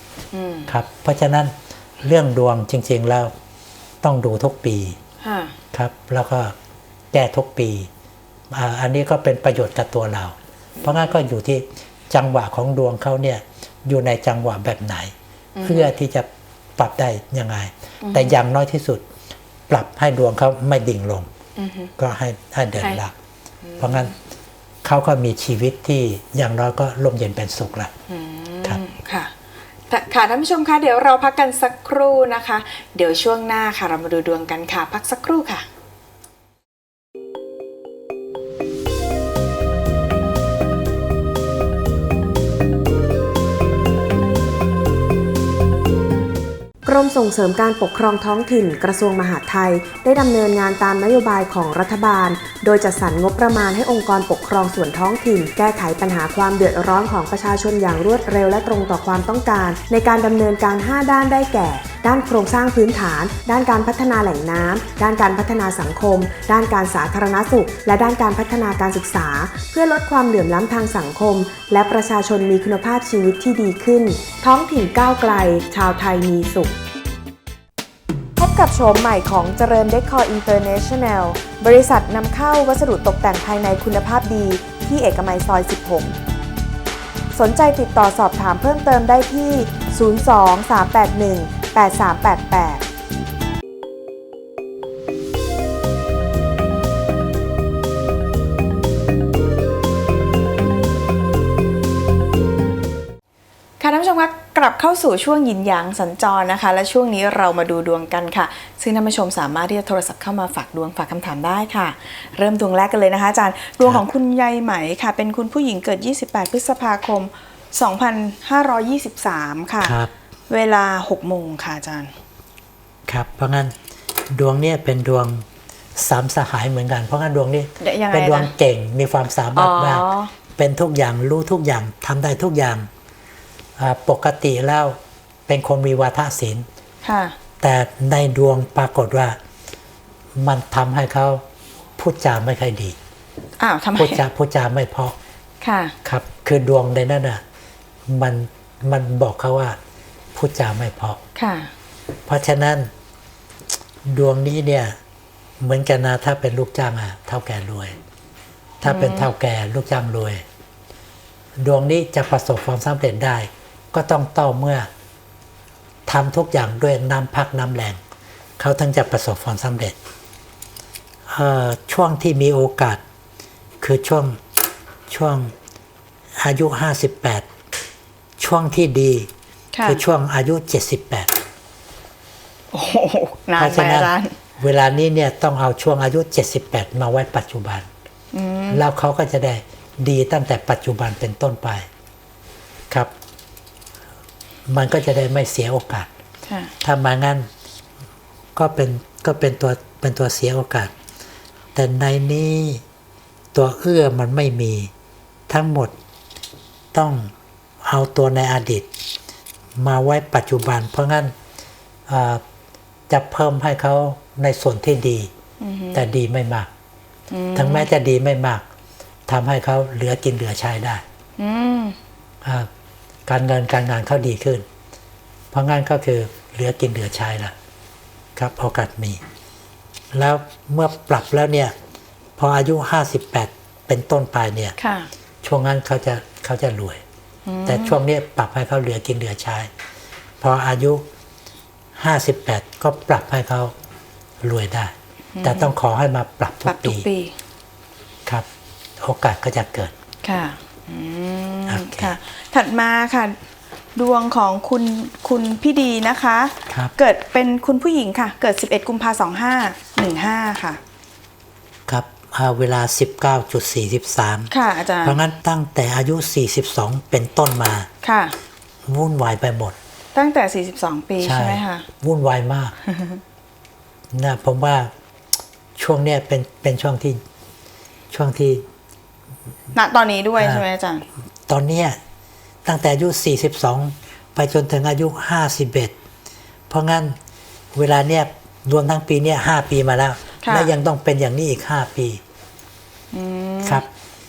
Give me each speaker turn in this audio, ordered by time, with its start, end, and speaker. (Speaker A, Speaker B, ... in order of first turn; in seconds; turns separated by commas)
Speaker A: 0.3-0.7, Speaker B: 0.7-3.3, Speaker B: 4.0-5.0, Speaker A: 5.2-5.5, Speaker B: 5.7-6.5, Speaker B: 7.1-7.9, Speaker B: 8.5-15.1, Speaker A: 15.6-15.9, Speaker B: 15.6-19.0, Speaker A: 18.0-18.4, Speaker B: 19.7-21.3, Speaker A: 21.6-21.9, Speaker B: 22.0-23.1, Speaker A: 23.6-24.1, Speaker B: 23.8-24.1, Speaker B: 24.9-27.9, Speaker A: 28.1-29.3, Speaker A: 29.9-35.7, Speaker C: 46.9-76.8, Speaker C: 78.4-86.1, Speaker C: 87.3-92.8, Speaker A: 103.8-120.0, Speaker B: 119.8-120.1, Speaker A: 120.5-122.1, Speaker B: 123.1-123.8, Speaker B: 124.3-125.5, Speaker B: 126.0-132.9, Speaker A: 127.8-128.5, Speaker A: 129.5-130.3, Speaker B: 133.8-135.0, Speaker B: 135.5-136.7, Speaker A: 137.0-137.4, Speaker B: 137.6-139.4, Speaker B: 140.4-141.4, Speaker B: 142.0-143.0, Speaker A: 143.6-144.2, Speaker B: 144.0-145.2, Speaker A: 145.6-145.9, Speaker B: 146.1-147.4, Speaker B: 148.1-149.8, Speaker B: 150.3-151.2, Speaker A: 151.4-151.7, Speaker B: 152.3-152.9, Speaker B: 154.1-155.0, Speaker B: 155.6-158.0, Speaker B: 158.8-160.4, Speaker A: 158.8-159.3, Speaker B: 161.6-164.9, Speaker B: 166.1-168.0, Speaker B: 168.6-169.9, Speaker B: 171.3-173.0, Speaker B: 173.8-174.4, Speaker B: 175.1-175.5, Speaker B: 176.4-177.5, Speaker B: 178.4-179.3, Speaker A: 179.7-180.0, Speaker B: 179.8-181.3, Speaker A: 182.7-184.3, Speaker B: 183.6-187.9, Speaker A: 188.3-188.8, Speaker B: 188.7-191.9, Speaker B: 194.7-196.1, Speaker A: 196.5-196.7, Speaker B: 196.8-197.5, Speaker B: 198.6-200.9, Speaker B: 201.8-202.8, Speaker B: 203.5-204.9, Speaker B: 205.5-205.9, Speaker B: 206.9-208.9, Speaker B: 209.8-211.3, Speaker B: 212.1-212.4, Speaker B: 213.1-215.3, Speaker A: 215.6-216.1, Speaker B: 215.9-216.7, Speaker A: 217.3-217.9, Speaker B: 217.6-218.6, Speaker B: 219.3-221.0, Speaker A: 221.4-222.0, Speaker B: 222.4-222.7, Speaker B: 223.3-224.7, Speaker B: 225.5-227.5, Speaker B: 228.4-229.2, Speaker B: 230.1-231.8, Speaker B: 232.4-234.8, Speaker A: 234.8-235.1, Speaker B: 235.4-237.0, Speaker A: 237.5-238.0, Speaker B: 237.7-239.7, Speaker B: 240.4-241.0, Speaker B: 242.0-243.7, Speaker B: 244.4-247.1, Speaker A: 245.3-245.7, Speaker A: 246.7-247.3, Speaker B: 249.0-249.9, Speaker A: 250.2-253.4, Speaker B: 251.7-252.2, Speaker A: 254.0-260.8, Speaker B: 261.9-264.5, Speaker A: 264.5-265.2, Speaker B: 265.0-267.9, Speaker A: 268.0-268.4, Speaker B: 268.9-269.8, Speaker A: 270.1-271.9, Speaker B: 271.2-272.7, Speaker A: 272.9-273.2, Speaker B: 274.1-274.9, Speaker B: 275.8-277.2, Speaker B: 278.1-278.6, Speaker A: 279.7-281.1, Speaker B: 280.4-280.6, Speaker B: 281.5-282.0, Speaker B: 282.6-285.9, Speaker B: 286.7-287.2, Speaker B: 287.7-292.2, Speaker A: 290.4-290.7, Speaker A: 293.1-293.9